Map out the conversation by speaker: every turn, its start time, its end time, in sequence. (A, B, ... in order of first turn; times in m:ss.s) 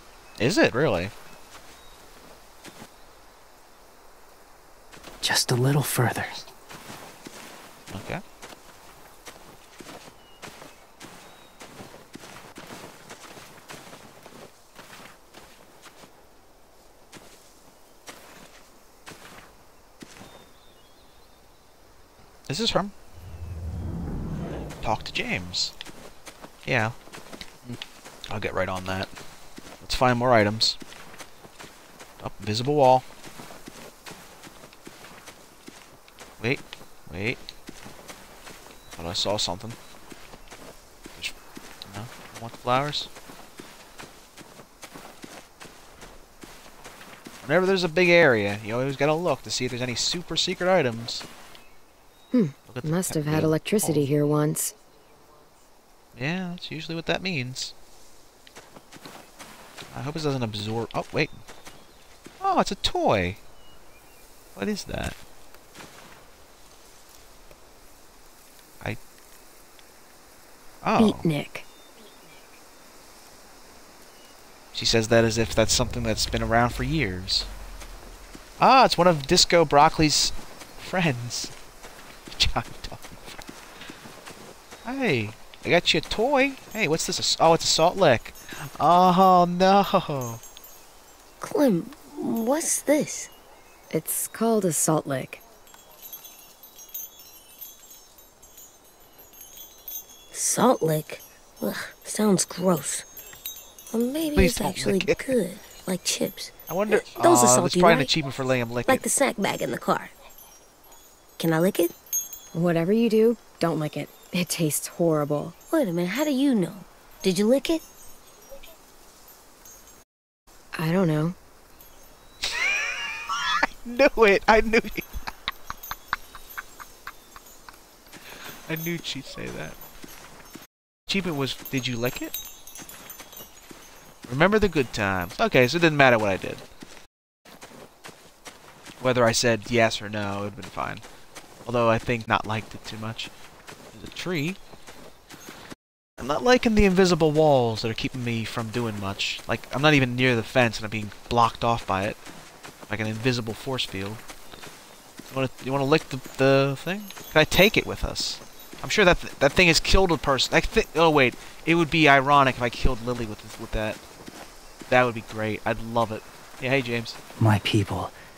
0:00.4-0:01.1 A
0:05.2-0:06.4 B
0:07.9-0:08.2 A
0:22.5-0:22.9 A
0:24.8-0:25.7 A
0:26.6-0:26.9 A
0:27.6-0:29.1 A
0:29.8-0:30.8 A
0:32.2-0:33.0 A
0:36.4-0:37.4 A
0:38.9-0:39.8 A
0:41.2-0:43.1 A
0:47.4-0:51.2 A
0:52.3-0:54.7 C
0:52.7-0:54.1 A
0:56.1-0:57.7 A
0:59.9-1:01.4 A
1:02.4-1:03.4 A
1:04.6-1:05.2 A
1:10.8-1:11.3 A
1:11.0-1:11.6 C
1:14.7-1:17.5 A
1:18.6-1:21.5 A
1:22.3-1:23.4 A
1:24.8-1:30.4 A
1:31.4-1:33.3 D
1:33.9-1:35.4 C
1:40.3-1:43.0 D
1:43.9-1:48.1 D
1:44.4-1:45.2 A
1:46.7-1:49.0 A
1:48.8-1:50.1 D
1:51.4-1:51.9 D
1:52.5-1:55.5 C
1:55.7-1:57.8 D
2:00.7-2:01.4 C
2:03.4-2:05.1 A
2:08.3-2:09.8 A
2:11.1-2:12.3 A
2:14.2-2:16.6 A
2:19.0-2:21.0 A
2:21.6-2:23.3 A
2:23.9-2:24.6 A
2:26.2-2:32.2 A
2:32.9-2:34.2 A
2:35.3-2:44.0 A
2:44.9-2:47.2 A
2:47.4-2:48.1 B